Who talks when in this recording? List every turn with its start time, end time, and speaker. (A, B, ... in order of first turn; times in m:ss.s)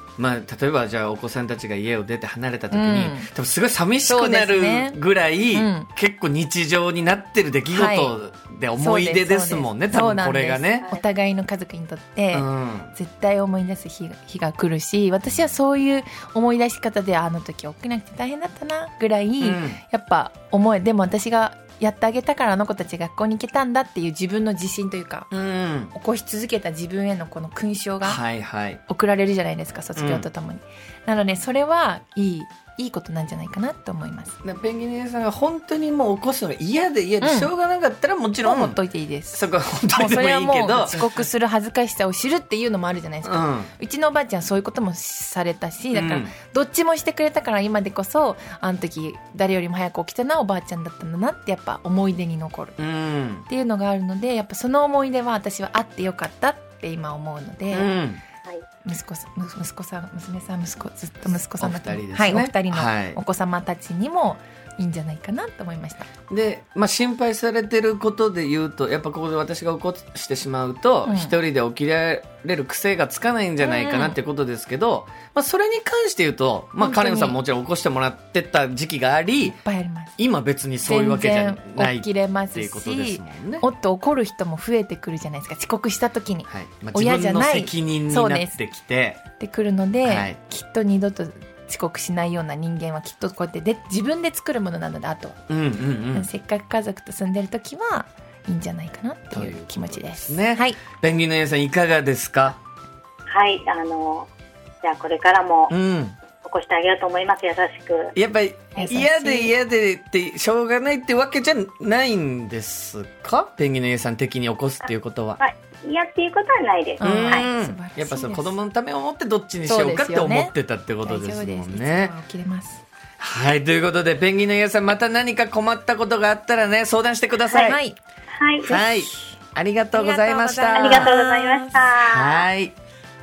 0:00.2-0:10.9 A
0:02.7-0:03.3 B
0:04.0-0:05.0 B
0:05.5-0:05.9 B
0:07.7-0:08.1 B
0:08.8-0:25.3 B
0:12.3-0:13.0 A
0:19.4-0:19.8 A
0:25.3-0:25.9 A
0:25.9-0:28.2 B
0:28.0-0:28.8 A
0:28.9-0:34.4 B
0:30.0-0:30.3 A
0:34.4-0:38.8 A
0:37.2-0:37.5 B
0:38.4-0:52.8 B
0:39.3-0:41.2 A
0:43.2-0:43.7 A
0:45.9-0:46.3 A
0:52.8-0:53.5 A
0:53.5-0:57.9 B
0:57.7-0:58.2 A
0:58.8-1:06.1 B
1:01.4-1:03.2 A
1:06.3-1:19.6 A
1:11.1-1:11.4 B
1:13.6-1:14.2 B
1:16.8-1:17.4 B
1:19.4-1:20.1 B
1:20.2-1:23.7 A
1:20.8-1:28.6 B
1:26.5-1:29.2 A
1:29.4-1:35.4 B
1:30.0-1:30.4 A
1:35.5-1:36.3 A
1:36.1-1:40.8 B
1:39.3-1:42.6 A
1:43.3-1:44.3 C
1:44.8-1:45.7 C
1:45.7-1:46.2 A
1:46.4-1:48.1 C
1:48.2-1:55.4 A
1:48.8-1:49.5 B
1:54.8-1:57.5 C
1:57.0-1:58.6 B
1:57.0-2:02.1 A
1:59.7-2:02.8 B
2:03.2-2:07.8 A
2:07.5-2:07.8 C
2:07.6-2:08.0 B
2:08.3-2:08.8 C
2:08.6-2:11.1 A
2:09.9-2:11.9 B
2:10.8-2:12.5 C
2:11.9-2:12.8 A